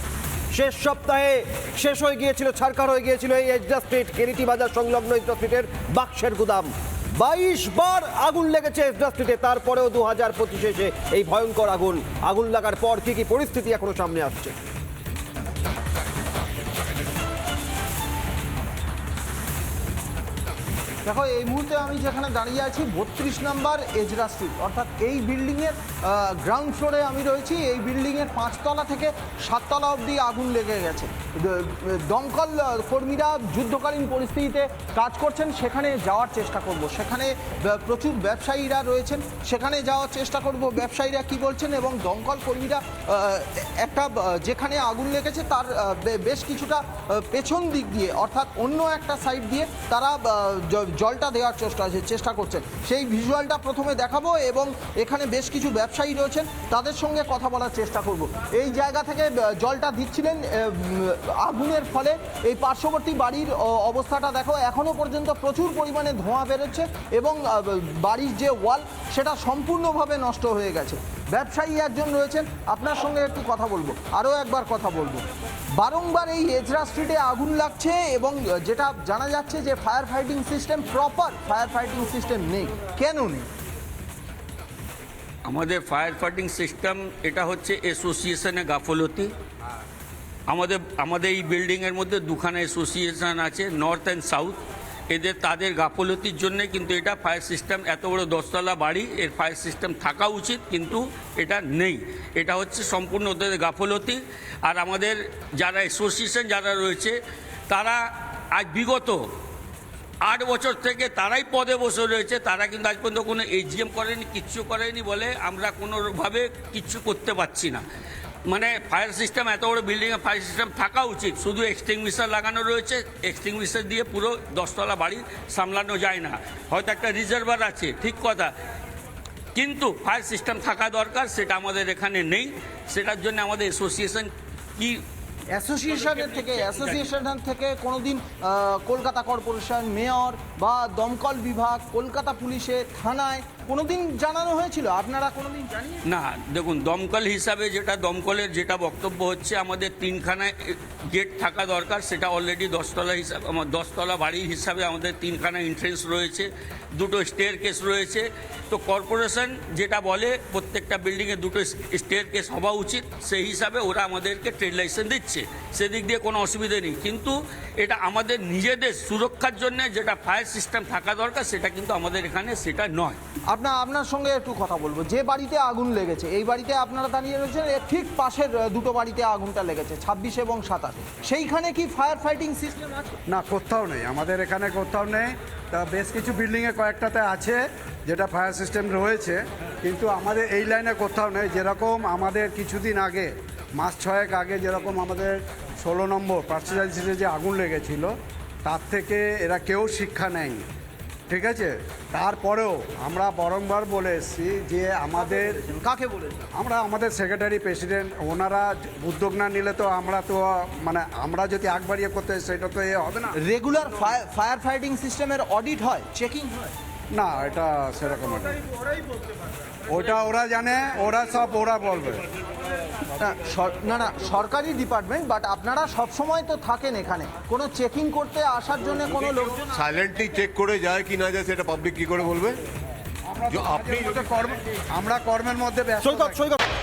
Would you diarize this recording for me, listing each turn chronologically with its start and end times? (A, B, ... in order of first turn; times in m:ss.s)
0:00.5-0:14.6 A
0:21.0-1:15.2 B
1:15.8-1:23.5 B
1:25.5-1:29.3 C
1:30.5-1:34.6 C
1:35.1-1:47.2 C
1:47.7-1:48.0 C
1:48.6-1:49.2 C
1:50.2-1:57.8 C
1:58.5-2:08.5 C
2:09.6-2:15.0 C
2:15.5-2:26.0 B
2:15.9-2:17.1 C
2:26.0-2:53.2 C
2:53.5-3:03.2 B
3:03.3-3:18.1 D
3:18.6-3:20.6 D
3:21.3-3:25.7 D
3:25.7-3:26.5 B
3:26.5-3:33.4 D
3:33.4-3:36.7 B
3:37.1-3:38.6 D
3:39.9-3:42.2 D
3:43.2-3:49.7 B
3:49.7-3:52.6 E
3:53.3-3:56.5 D
3:53.5-3:54.4 E
3:56.0-3:56.6 A